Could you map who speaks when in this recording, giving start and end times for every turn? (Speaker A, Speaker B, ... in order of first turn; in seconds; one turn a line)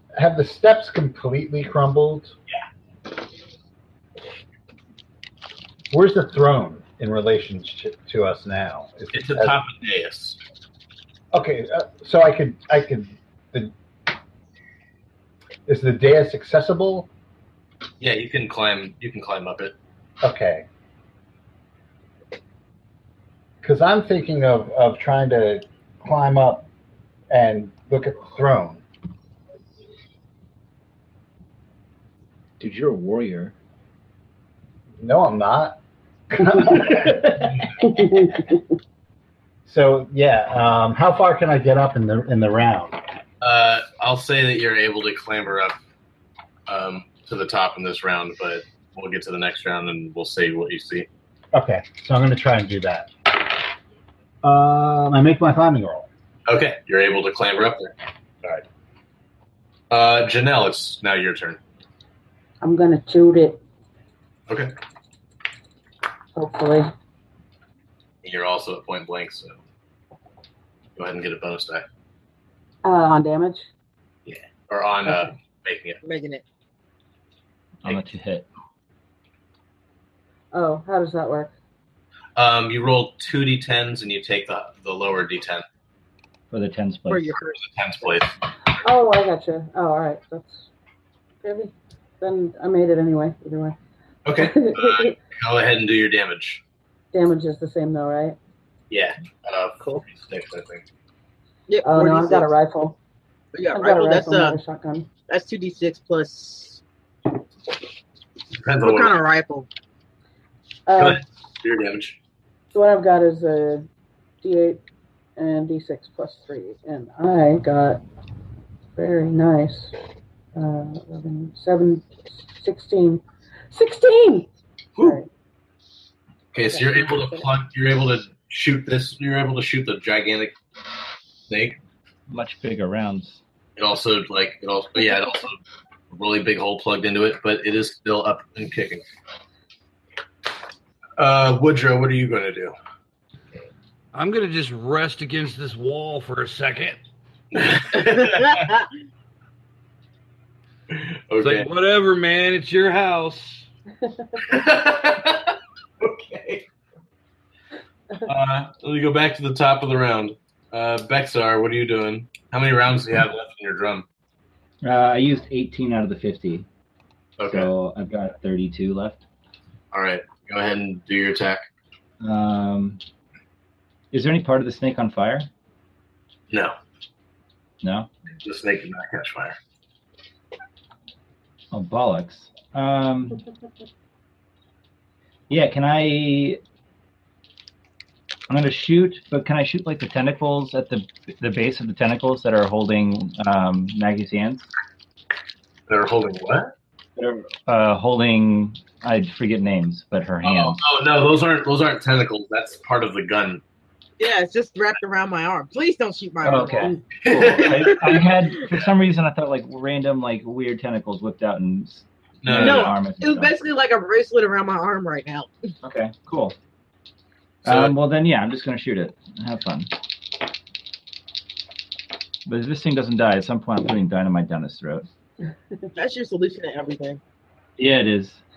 Speaker A: 0.1-2.3
Speaker A: 5.9-9.6
Speaker B: 9.1-10.4
Speaker A: 11.3-13.7
Speaker A: 15.7-17.1
Speaker B: 18.0-19.7
Speaker A: 20.2-20.6
Speaker A: 23.6-26.7
Speaker A: 27.3-28.8
Speaker C: 32.6-33.5
Speaker A: 35.0-35.8
Speaker A: 36.3-37.6
Speaker D: 37.8-38.6
Speaker A: 39.6-43.0
Speaker B: 43.4-45.8
Speaker B: 46.7-51.1
Speaker A: 51.5-53.1
Speaker A: 54.4-56.1
Speaker B: 56.5-57.9
Speaker B: 59.9-61.6
Speaker D: 62.6-63.6
Speaker B: 64.5-64.7
Speaker D: 66.3-66.9
Speaker B: 68.2-69.6
Speaker B: 71.0-71.8
Speaker D: 72.8-73.7
Speaker B: 74.2-76.0
Speaker E: 76.0-76.4
Speaker C: 77.8-78.5
Speaker D: 80.5-81.5
Speaker B: 82.3-85.6
Speaker C: 86.5-87.3
Speaker E: 87.1-88.2
Speaker B: 87.6-88.3
Speaker D: 88.8-90.7
Speaker D: 91.4-93.8
Speaker B: 94.2-96.6
Speaker D: 94.3-95.2
Speaker D: 97.1-98.4
Speaker B: 98.9-100.8
Speaker E: 101.7-102.5
Speaker D: 101.8-103.0
Speaker E: 103.5-104.6
Speaker D: 103.7-105.1
Speaker E: 105.3-106.8
Speaker B: 108.6-109.1
Speaker E: 108.8-109.7
Speaker D: 110.9-111.2
Speaker B: 111.0-112.2
Speaker D: 112.7-113.9
Speaker D: 114.4-114.8
Speaker D: 115.3-118.0
Speaker D: 118.9-119.9
Speaker D: 120.5-125.3
Speaker B: 126.5-130.5
Speaker D: 126.7-127.4
Speaker B: 131.5-131.8
Speaker C: 132.3-133.4
Speaker B: 133.8-135.6
Speaker B: 136.1-139.0
Speaker B: 141.2-142.7
Speaker F: 144.1-147.0
Speaker B: 147.5-148.7
Speaker E: 148.3-148.8
Speaker B: 150.9-151.7
Speaker F: 151.4-153.7
Speaker B: 154.4-156.7
Speaker B: 158.2-164.1
Speaker C: 164.8-166.7
Speaker B: 167.4-167.7
Speaker C: 167.4-169.2
Speaker B: 169.9-171.7
Speaker C: 172.2-173.0
Speaker C: 174.1-175.5
Speaker B: 176.5-176.8
Speaker C: 177.8-178.1
Speaker B: 178.4-179.6
Speaker C: 181.7-183.4
Speaker C: 185.5-186.6
Speaker C: 188.5-194.7
Speaker B: 195.9-196.7
Speaker C: 197.2-200.8
Speaker B: 200.4-203.6
Speaker E: 204.2-206.9
Speaker C: 206.4-213.5
Speaker B: 207.2-208.2
Speaker B: 212.4-212.9
Speaker E: 212.6-215.5
Speaker C: 215.8-216.6
Speaker B: 217.6-217.9
Speaker C: 217.6-219.9
Speaker C: 222.4-225.1
Speaker E: 225.9-227.2
Speaker C: 227.8-228.4